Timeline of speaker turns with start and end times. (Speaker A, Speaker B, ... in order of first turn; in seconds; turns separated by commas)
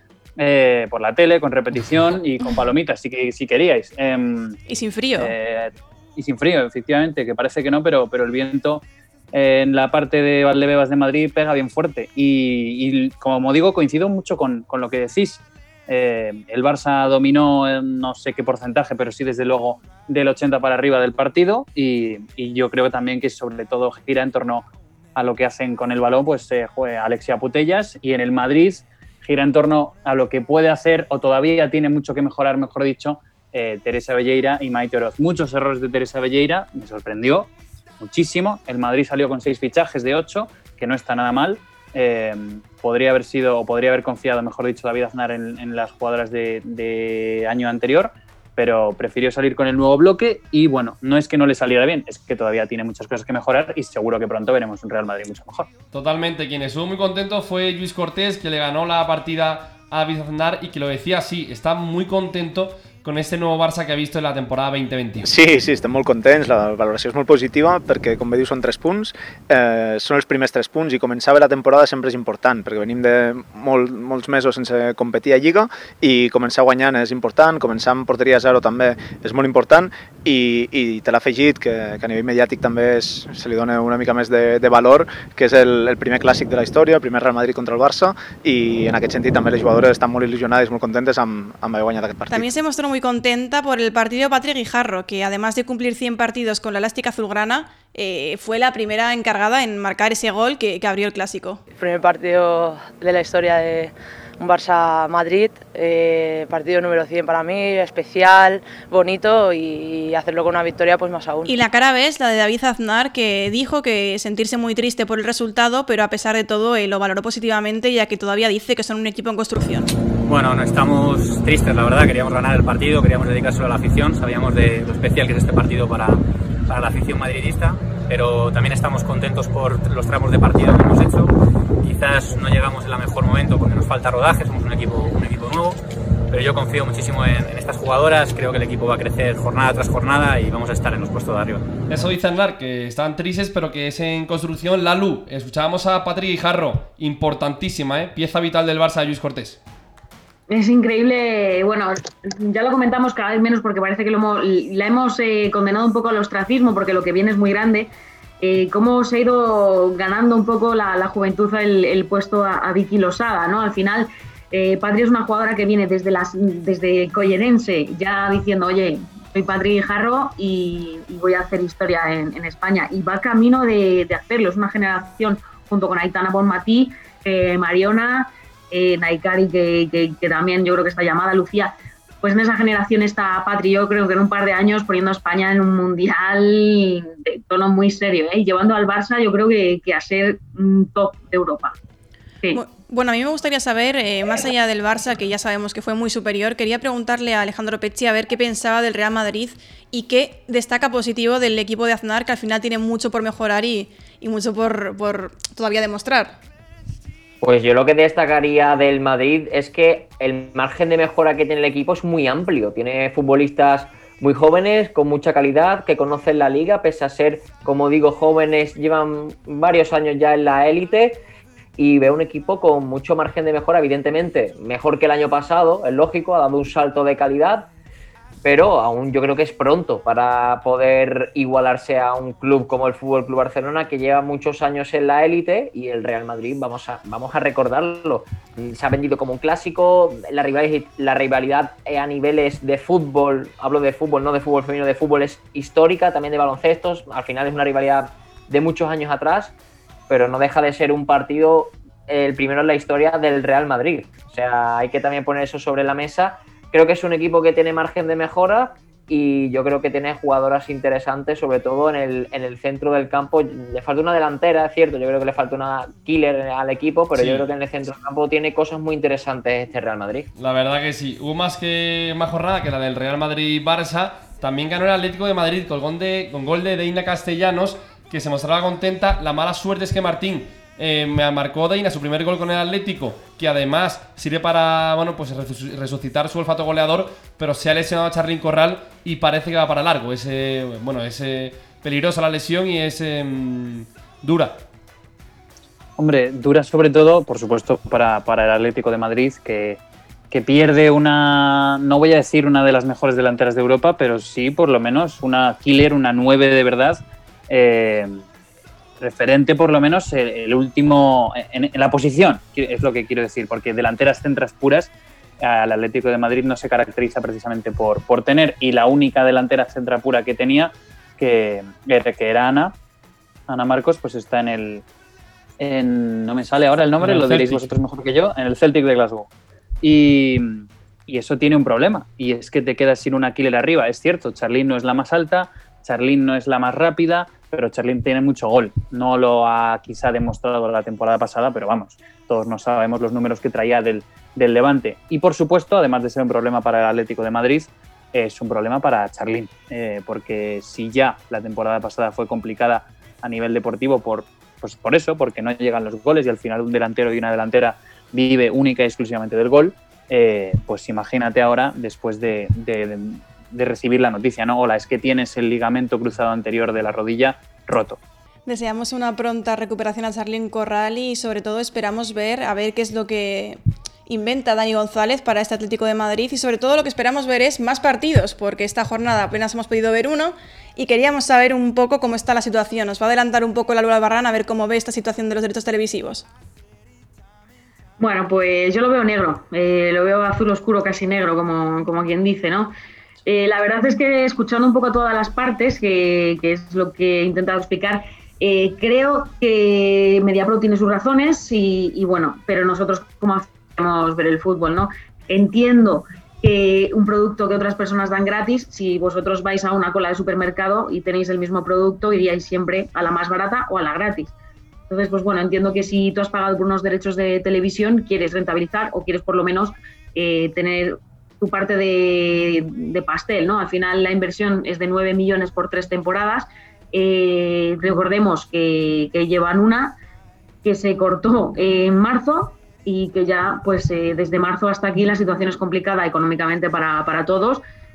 Speaker A: 0.4-4.6, Speaker B: 4.7-5.3, Speaker A: 5.2-55.7, Speaker C: 55.9-65.3, Speaker D: 65.2-92.5, Speaker B: 92.3-101.6, Speaker E: 101.7-111.6, Speaker B: 111.5-119.9, Speaker F: 120.3-126.0, Speaker F: 126.7-128.4, Speaker F: 129.0-131.0, Speaker A: 132.3-133.4, Speaker F: 133.7-134.0, Speaker A: 134.2-134.8, Speaker F: 135.2-135.7, Speaker F: 136.3-140.1, Speaker F: 141.0-141.3, Speaker C: 141.9-149.6, Speaker G: 150.5-191.8, Speaker B: 192.5-206.3, Speaker H: 207.4-221.2, Speaker H: 221.8-227.7, Speaker H: 228.4-249.5, Speaker H: 250.1-270.3, Speaker C: 267.1-267.4, Speaker C: 270.4-294.6, Speaker A: 296.0-299.8, Speaker A: 300.3-308.2, Speaker A: 309.0-322.8, Speaker A: 323.5-324.8, Speaker A: 325.6-329.3, Speaker A: 329.8-368.0, Speaker B: 368.5-386.2, Speaker G: 388.0-392.7, Speaker G: 393.2-414.3, Speaker G: 414.9-430.0, Speaker G: 430.6-437.6